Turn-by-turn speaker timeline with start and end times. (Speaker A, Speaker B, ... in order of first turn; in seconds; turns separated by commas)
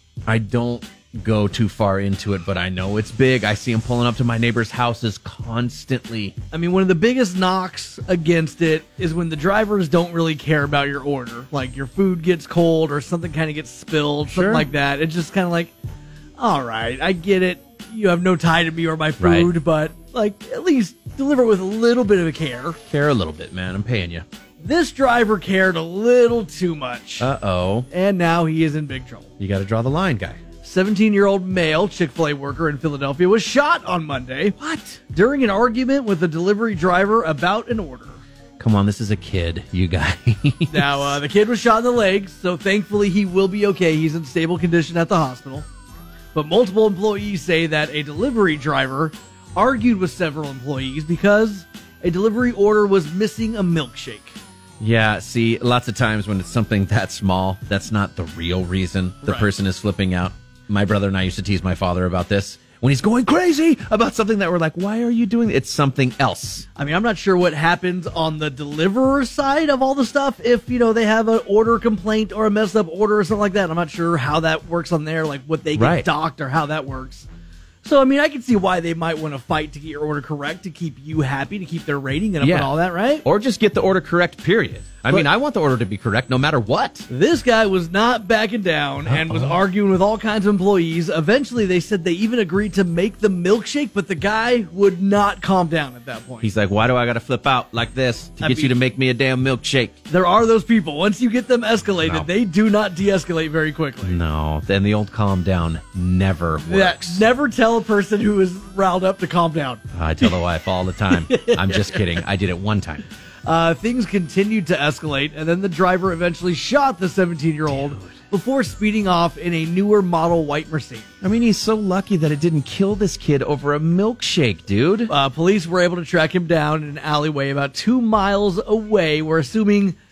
Speaker A: 0.3-6.3, Speaker B: 6.5-15.7, Speaker A: 14.3-14.7, Speaker B: 16.4-22.8, Speaker A: 19.2-19.5, Speaker A: 22.9-24.2, Speaker B: 24.6-27.2, Speaker A: 27.2-27.9, Speaker B: 27.9-29.3, Speaker A: 29.4-30.4, Speaker B: 30.6-34.5, Speaker A: 34.6-35.0, Speaker B: 35.1-38.2, Speaker A: 38.6-41.2, Speaker B: 40.7-45.6, Speaker B: 46.3-54.3, Speaker A: 54.8-66.7, Speaker B: 66.8-77.2, Speaker A: 75.8-76.1, Speaker B: 77.8-83.2, Speaker A: 82.4-87.1, Speaker B: 87.1-96.5, Speaker A: 89.1-89.6, Speaker A: 96.4-99.9, Speaker B: 98.4-98.7, Speaker B: 100.1-104.2, Speaker A: 102.0-102.3, Speaker A: 104.0-107.2, Speaker B: 106.6-110.3, Speaker A: 109.9-113.0, Speaker B: 111.1-112.2, Speaker B: 113.5-121.2, Speaker A: 117.7-118.1, Speaker A: 121.2-125.1, Speaker B: 125.1-129.9